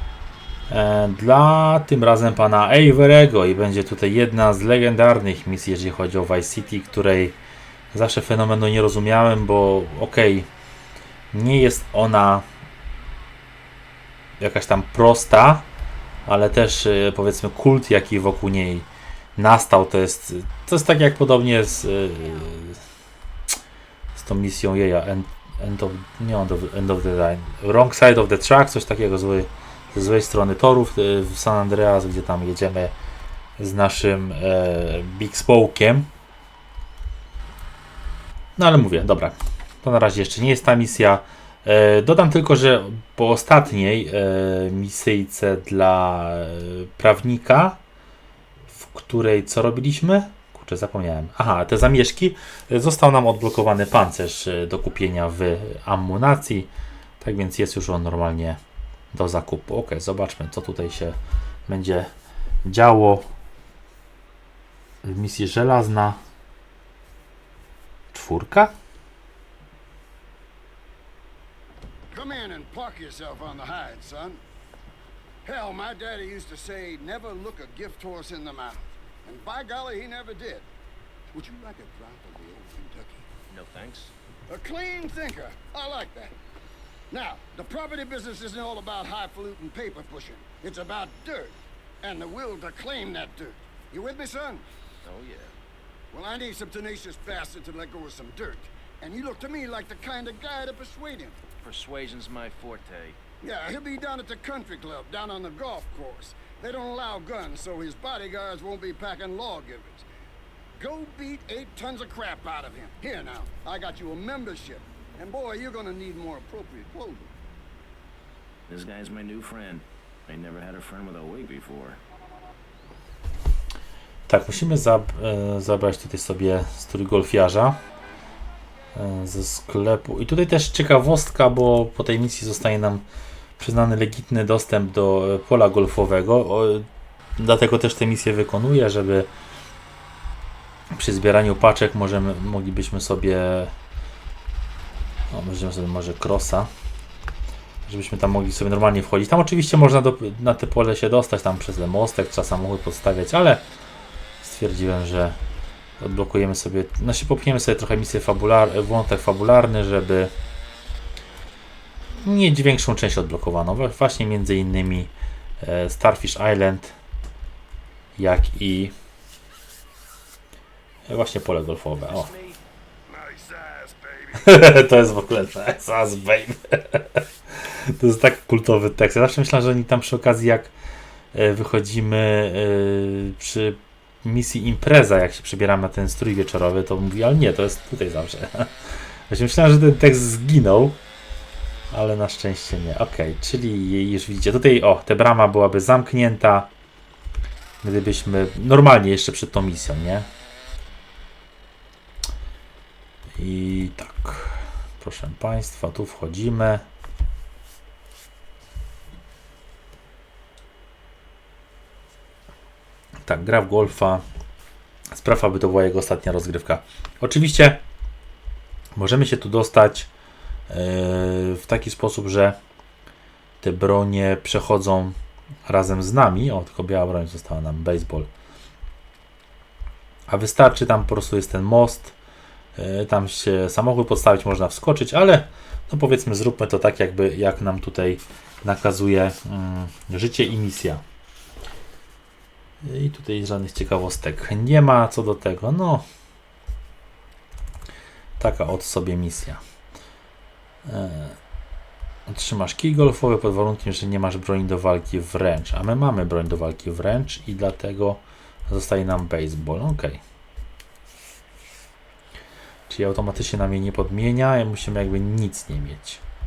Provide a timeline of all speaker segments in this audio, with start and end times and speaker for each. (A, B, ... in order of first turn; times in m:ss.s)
0:00.7-0:07.4 A
0:07.9-0:10.5 A
0:11.3-0:12.5 A
0:14.4-0:15.7 A
0:16.3-0:22.8 A
0:24.2-0:33.0 A
0:33.6-0:36.1 A
0:38.6-0:47.8 A
0:48.7-0:58.6 A
0:59.1-1:02.1 A
1:02.6-1:03.3 A
1:05.0-1:06.2 A
1:08.1-1:08.7 A
1:12.1-1:14.4 B
1:15.4-1:20.7 B
1:21.3-1:23.3 B
1:23.5-1:24.1 C
1:24.5-1:26.4 B
1:27.1-1:34.6 B
1:35.0-1:35.5 C
1:36.1-1:41.4 B
1:41.6-1:43.2 C
1:43.4-1:50.1 B
1:50.8-1:57.3 B
1:58.7-2:02.0 C
2:04.3-2:07.8 A
2:09.0-2:13.0 A
2:13.6-2:19.3 A
2:20.9-2:23.7 A
2:25.3-2:26.7 A
2:27.8-2:33.7 A
2:34.4-2:35.4 A
2:36.0-2:40.3 A
2:42.2-2:46.9 A
2:48.2-2:49.0 A
2:51.1-2:52.3 A
2:52.1-2:52.6 C
2:53.1-2:54.4 B
2:54.3-3:00.7 A
3:01.3-3:11.0 A
3:11.9-3:16.7 A
3:17.8-3:20.3 A
3:23.4-3:26.9 A
3:33.2-3:34.2 A
3:35.1-3:37.8 A
3:39.0-3:40.1 A
3:40.7-3:42.6 A
3:43.6-3:45.2 A
3:45.7-3:48.3 A
3:50.3-3:52.2 A
3:52.8-4:01.0 A
4:02.8-4:06.0 A
4:08.4-4:09.6 A
4:10.8-4:11.4 A
4:12.3-4:20.2 A
4:22.9-4:26.2 A